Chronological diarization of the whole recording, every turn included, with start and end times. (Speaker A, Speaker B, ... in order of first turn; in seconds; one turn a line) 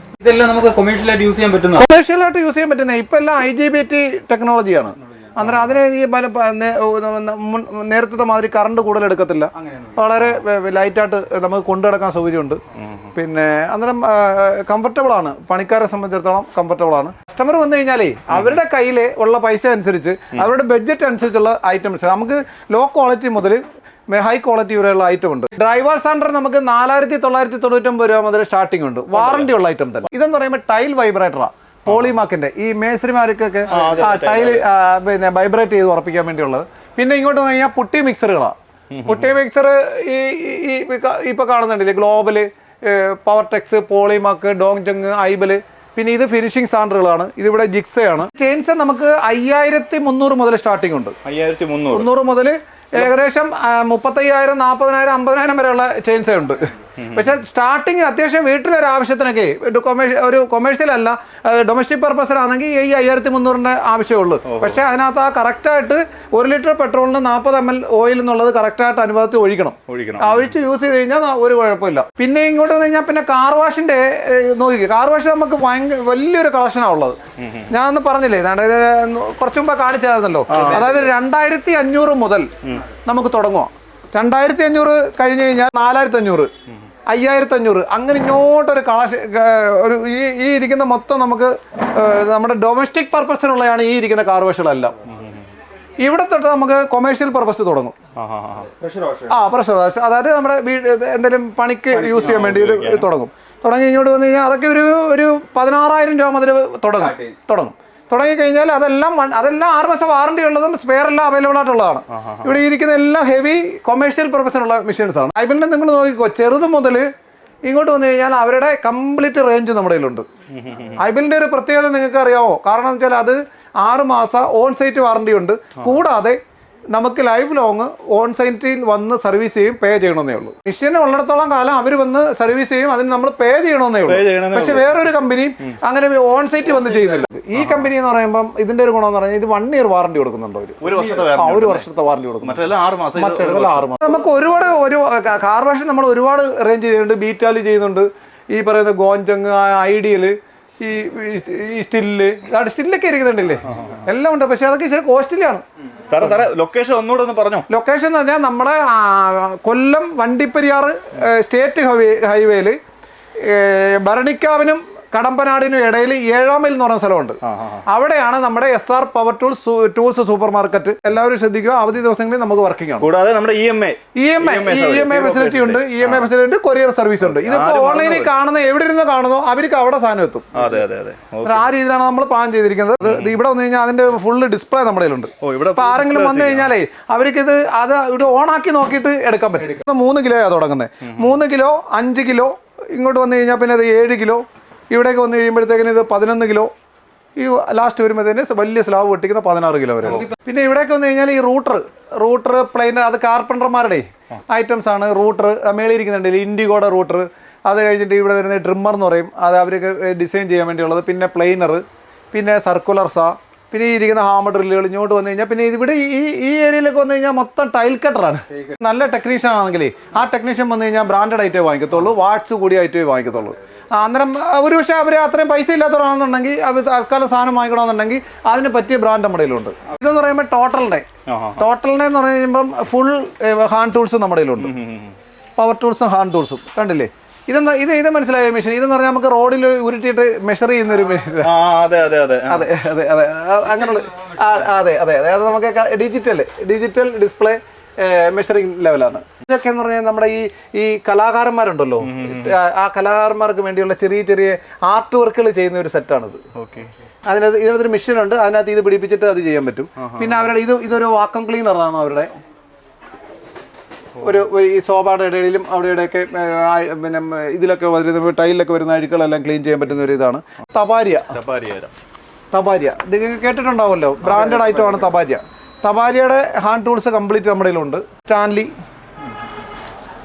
Speaker A: 0.2-1.8
Speaker B: 1.8-12.6
Speaker C: 5.4-5.7
Speaker A: 9.5-10.0
Speaker C: 12.8-13.1
Speaker B: 13.1-51.1
Speaker C: 29.1-29.5
Speaker C: 31.9-32.1
Speaker C: 33.7-34.6
Speaker C: 38.9-39.3
Speaker C: 51.2-52.1
Speaker B: 51.9-77.2
Speaker C: 57.0-57.3
Speaker C: 64.4-64.8
Speaker C: 69.9-70.5
Speaker C: 77.4-77.7
Speaker B: 77.7-82.5
Speaker C: 80.5-81.1
Speaker B: 83.0-86.5
Speaker B: 87.1-94.9
Speaker C: 95.0-95.4
Speaker B: 96.0-97.9
Speaker C: 98.2-98.7
Speaker A: 98.8-99.4
Speaker B: 99.3-117.1
Speaker A: 101.9-102.4
Speaker C: 102.2-103.1
Speaker A: 107.0-107.3
Speaker C: 112.2-112.6
Speaker B: 117.6-120.2
Speaker C: 120.5-121.0
Speaker B: 121.0-126.4
Speaker B: 126.9-142.6
Speaker C: 134.0-135.0
Speaker A: 136.7-137.2
Speaker C: 140.8-141.9
Speaker C: 142.4-144.0
Speaker B: 143.1-155.6
Speaker C: 156.1-157.7
Speaker B: 157.7-162.8
Speaker B: 163.3-173.1
Speaker C: 167.4-167.8
Speaker C: 173.0-176.3
Speaker B: 174.1-180.6
Speaker C: 177.2-178.3
Speaker C: 180.5-181.7
Speaker B: 181.4-196.7
Speaker C: 183.0-183.3
Speaker C: 185.4-186.7
Speaker C: 191.0-191.3
Speaker B: 197.4-231.1
Speaker A: 200.0-200.3
Speaker A: 218.5-218.8
Speaker C: 231.3-231.7
Speaker B: 231.6-234.7
Speaker C: 234.6-235.1
Speaker B: 235.6-241.5
Speaker C: 241.4-242.7
Speaker B: 242.5-256.4
Speaker A: 243.8-244.5
Speaker C: 252.0-252.5
Speaker C: 256.5-256.9
Speaker B: 257.3-262.3
Speaker C: 260.0-260.4
Speaker B: 264.2-271.3
Speaker C: 271.3-271.9
Speaker B: 272.5-278.7
Speaker A: 274.3-275.0